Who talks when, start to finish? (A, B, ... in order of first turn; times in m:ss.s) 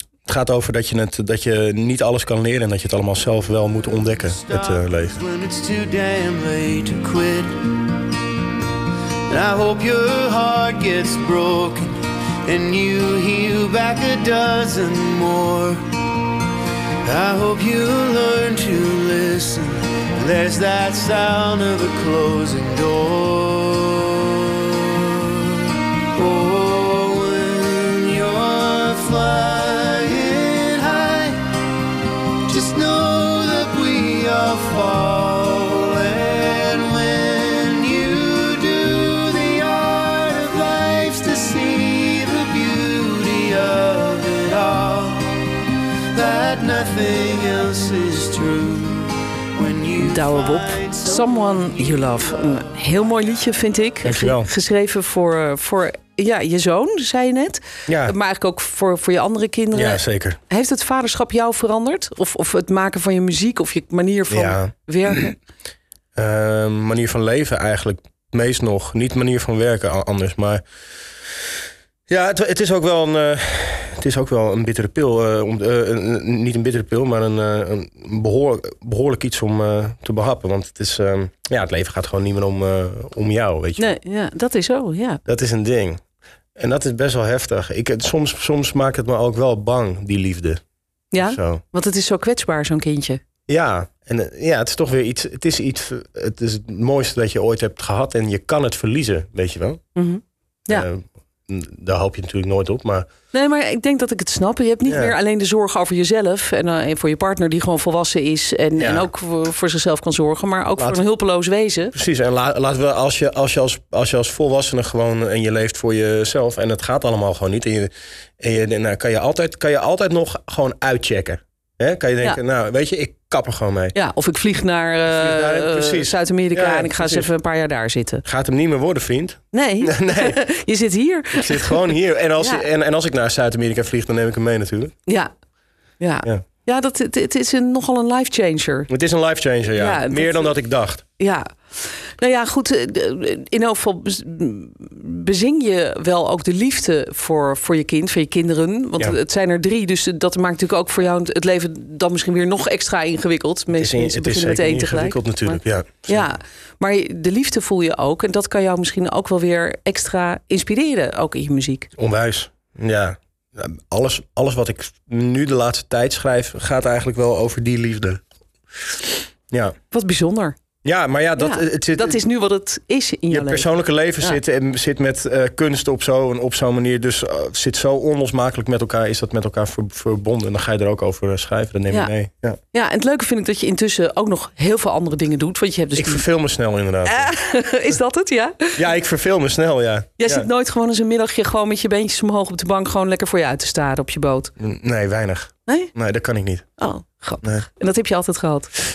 0:00.3-0:05.2 A
0:04.4-0:07.9 B
0:09.3-0:16.0 B
0:17.0-0:31.6 B
0:32.5-0:45.6 B
0:46.1-0:52.2 B
0:50.0-1:05.4 C
0:54.0-0:54.5 A
0:57.9-0:58.2 A
0:59.7-1:00.4 A
1:04.3-1:05.3 A
1:06.2-1:10.6 A
1:12.1-1:23.9 A
1:23.8-1:25.2 C
1:25.3-1:26.0 A
1:26.6-1:30.6 A
1:31.1-1:33.2 C
1:31.2-1:31.6 A
1:33.5-1:39.8 A
1:40.0-1:40.9 C
1:40.7-1:43.1 A
1:43.3-1:52.0 C
1:44.9-1:45.2 A
1:48.8-1:49.1 A
1:51.9-2:04.0 A
2:04.0-2:08.2 C
2:05.1-2:07.3 A
2:08.2-2:10.4 A
2:09.5-2:12.7 C
2:11.4-2:14.9 A
2:15.1-2:15.3 C
2:16.0-2:18.9 C
2:18.9-2:21.0 A
2:19.8-2:20.6 C
2:21.2-2:41.9 C
2:33.8-2:36.3 A
2:42.0-2:48.2 A
2:49.9-2:50.6 C
2:50.8-2:52.2 A
2:51.4-2:54.4 C
2:53.3-3:02.6 A
3:02.7-3:06.2 C
3:06.0-3:07.3 A
3:07.0-3:08.8 C
3:08.8-3:10.5 A
3:10.2-3:14.5 C
3:14.6-3:16.7 A
3:15.7-3:15.9 C
3:16.8-3:18.7 C